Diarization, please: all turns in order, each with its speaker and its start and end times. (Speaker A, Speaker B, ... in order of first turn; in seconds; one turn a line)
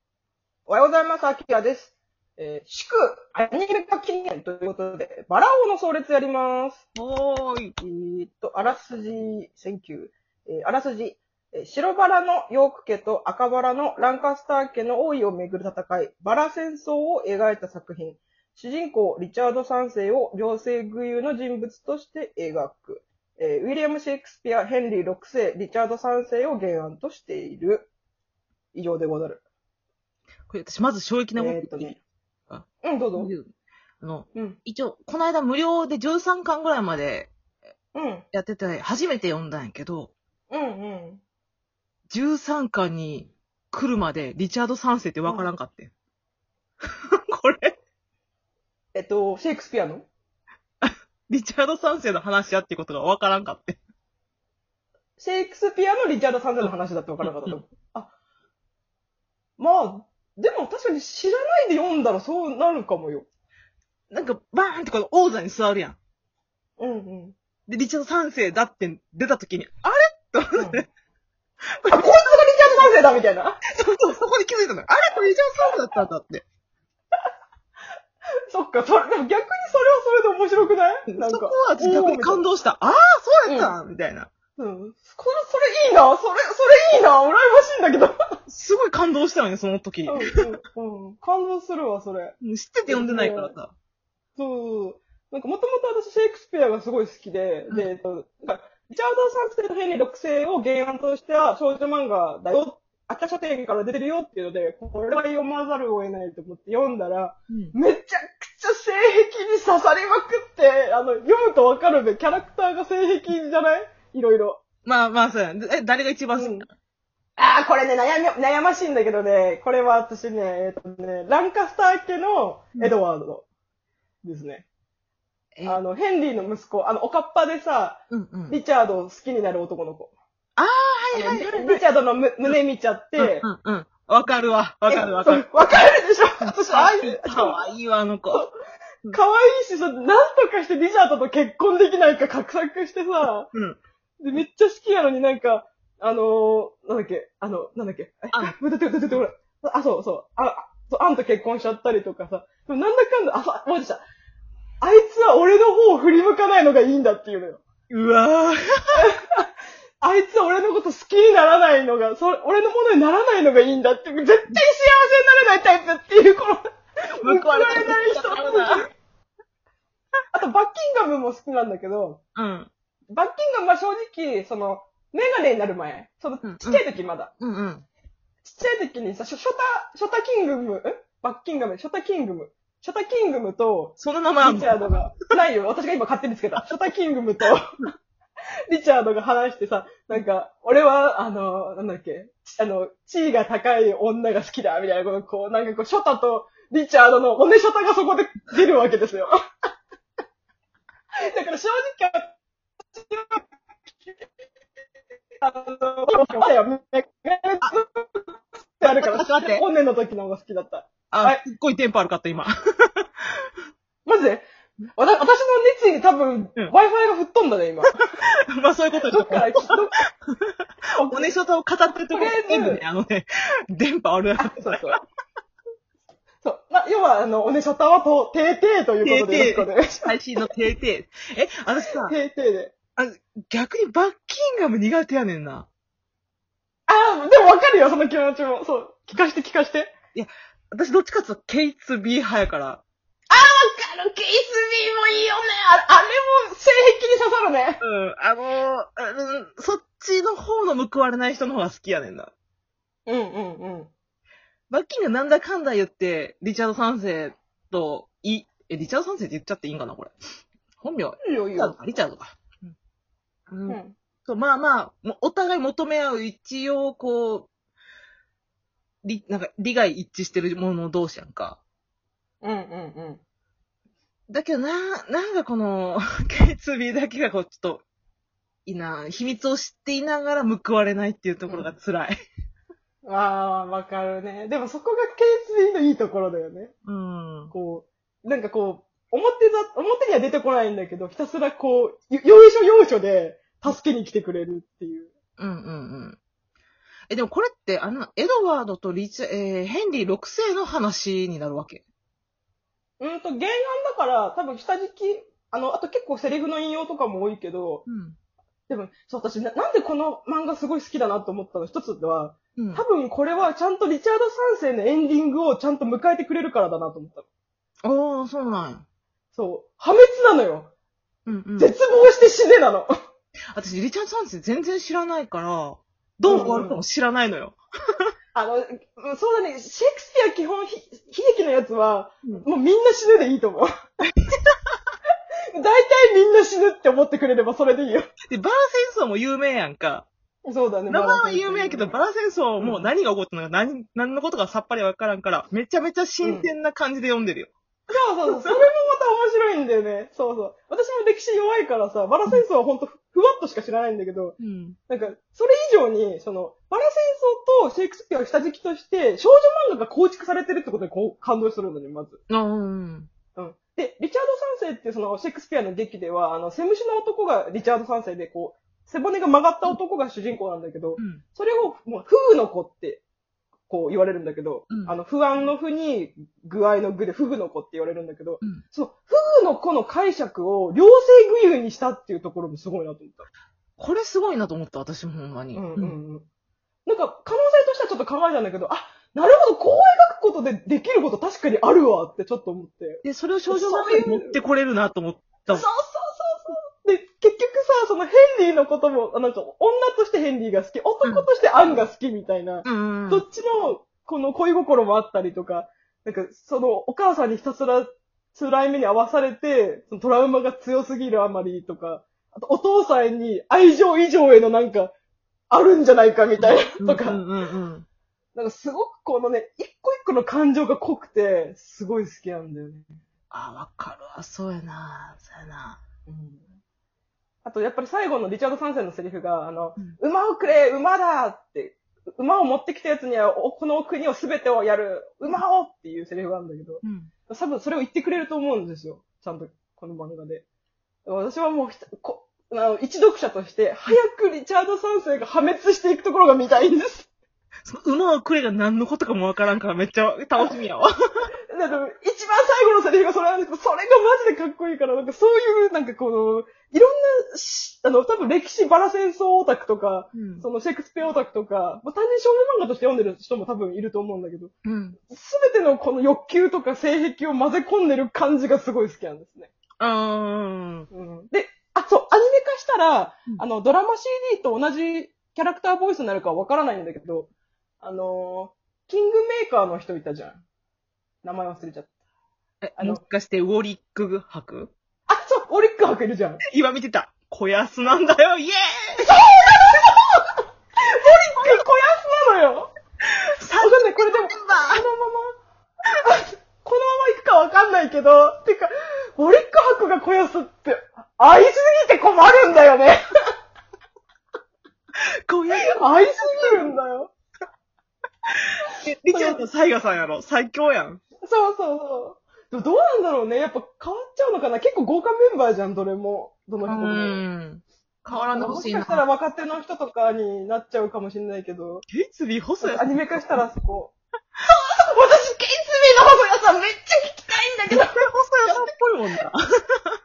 Speaker A: 0.7-6.8
Speaker B: 6.9-7.7
Speaker A: 7.8-27.9
Speaker A: 28.7-29.4
Speaker B: 30.5-31.9
Speaker A: 31.4-32.0
Speaker A: 32.8-33.3
Speaker B: 33.1-33.5
Speaker B: 34.0-37.3
Speaker A: 34.3-34.6
Speaker A: 37.9-38.2
Speaker B: 38.3-40.1
Speaker A: 40.5-41.2
Speaker B: 42.1-45.9
Speaker A: 45.2-45.5
Speaker B: 47.3-47.7
Speaker A: 48.9-50.1
Speaker B: 50.8-53.8
Speaker A: 55.2-58.1
Speaker B: 57.2-57.6
Speaker A: 59.6-63.2
Speaker B: 64.1-66.0
Speaker A: 66.8-67.3
Speaker B: 67.7-70.8
Speaker A: 70.5-70.8
Speaker B: 71.8-72.8
Speaker A: 71.9-73.6
Speaker B: 73.7-76.4
Speaker A: 78.5-82.4
Speaker B: 81.1-84.3
Speaker A: 83.5-83.7
Speaker A: 84.6-88.1
Speaker B: 88.5-90.2
Speaker A: 90.0-92.3
Speaker B: 92.4-93.7
Speaker A: 92.9-93.5
Speaker A: 94.3-114.6
Speaker B: 114.8-116.7
Speaker A: 116.3-116.7
Speaker A: 117.4-123.4
Speaker A: 124.2-124.7
Speaker A: 125.6-130.1
Speaker B: 128.1-128.6
Speaker B: 130.6-131.8
Speaker A: 131.1-133.5
Speaker B: 133.2-135.5
Speaker A: 134.9-137.6
Speaker B: 136.4-138.4
Speaker A: 139.1-143.5
Speaker B: 143.5-143.8
Speaker A: 144.2-154.0
Speaker A: 154.8-157.6
Speaker B: 157.9-159.0
Speaker A: 159.0-159.2
Speaker A: 160.0-166.6
Speaker A: 167.2-168.9
Speaker B: 167.2-168.8
Speaker A: 170.3-172.2
Speaker B: 172.3-172.7
Speaker A: 173.1-177.3
Speaker B: 176.4-176.8
Speaker B: 177.4-177.8
Speaker A: 178.4-187.6
Speaker B: 184.0-184.8
Speaker A: 188.7-199.3
Speaker A: 201.2-202.3
Speaker A: 202.9-203.4
Speaker A: 205.4-211.4
Speaker B: 208.8-209.6
Speaker B: 211.1-213.1
Speaker A: 214.1-218.0
Speaker B: 218.5-219.7
Speaker A: 219.1-219.9
Speaker B: 220.9-224.9
Speaker A: 221.0-221.3
Speaker A: 222.1-222.8
Speaker A: 224.4-225.0
Speaker A: 226.4-230.1
Speaker B: 229.0-232.1
Speaker A: 232.0-232.7
Speaker B: 232.9-235.7
Speaker A: 236.9-239.9
Speaker B: 240.1-242.8
Speaker A: 243.3-247.8
Speaker B: 247.8-252.3
Speaker A: 253.1-253.9
Speaker B: 254.7-260.1
Speaker B: 260.8-262.7
Speaker A: 261.2-261.8
Speaker B: 263.5-267.5
Speaker A: 263.7-263.9
Speaker B: 269.0-271.6
Speaker A: 272.4-273.2
Speaker B: 274.3-277.8
Speaker B: 278.6-282.1
Speaker A: 283.0-286.7
Speaker B: 286.8-287.5
Speaker A: 287.5-295.1
Speaker B: 295.4-296.2
Speaker B: 297.1-301.8
Speaker A: 303.0-307.8
Speaker B: 307.9-308.1
Speaker A: 308.7-317.2
Speaker B: 312.6-312.8
Speaker B: 317.8-318.8
Speaker A: 319.3-320.7
Speaker B: 321.2-321.7
Speaker A: 321.6-322.9
Speaker B: 323.5-328.1
Speaker A: 326.2-326.8
Speaker A: 328.3-333.7
Speaker B: 334.2-334.5
Speaker A: 335.5-338.1
Speaker B: 338.3-340.1
Speaker A: 340.4-341.9
Speaker B: 340.9-347.5
Speaker A: 342.6-342.9
Speaker A: 346.2-346.5
Speaker A: 347.9-354.4
Speaker B: 354.4-354.8
Speaker A: 354.9-362.2
Speaker B: 362.3-363.1
Speaker A: 363.3-373.0
Speaker B: 371.0-371.2
Speaker A: 373.7-383.3
Speaker B: 374.7-374.9
Speaker B: 383.8-385.9
Speaker A: 385.5-386.2
Speaker A: 386.9-394.4
Speaker B: 393.0-395.6
Speaker A: 395.5-414.9
Speaker B: 402.6-403.2
Speaker A: 415.5-417.2
Speaker B: 416.4-417.9
Speaker A: 418.3-422.9
Speaker B: 423.3-425.8
Speaker A: 426.1-426.4
Speaker A: 427.4-440.4
Speaker B: 436.8-437.1
Speaker A: 441.0-447.1
Speaker B: 447.6-451.2
Speaker A: 451.5-464.5
Speaker B: 460.1-460.4
Speaker B: 464.6-465.0
Speaker A: 465.1-469.5
Speaker B: 469.8-470.9
Speaker A: 470.9-477.3
Speaker A: 477.8-480.4
Speaker A: 481.2-481.9
Speaker B: 482.6-484.7
Speaker A: 485.1-486.4
Speaker B: 486.4-489.1
Speaker A: 489.0-490.0
Speaker A: 490.9-492.7
Speaker B: 491.4-491.6
Speaker B: 493.1-494.8
Speaker A: 493.6-495.3
Speaker A: 496.0-503.0
Speaker B: 505.3-506.7
Speaker A: 505.5-507.1
Speaker B: 508.3-511.0
Speaker A: 509.1-509.4
Speaker A: 511.2-517.2
Speaker B: 516.6-519.0
Speaker A: 518.3-521.9
Speaker B: 521.9-523.0
Speaker A: 522.6-523.9
Speaker A: 524.5-528.7
Speaker B: 527.7-529.4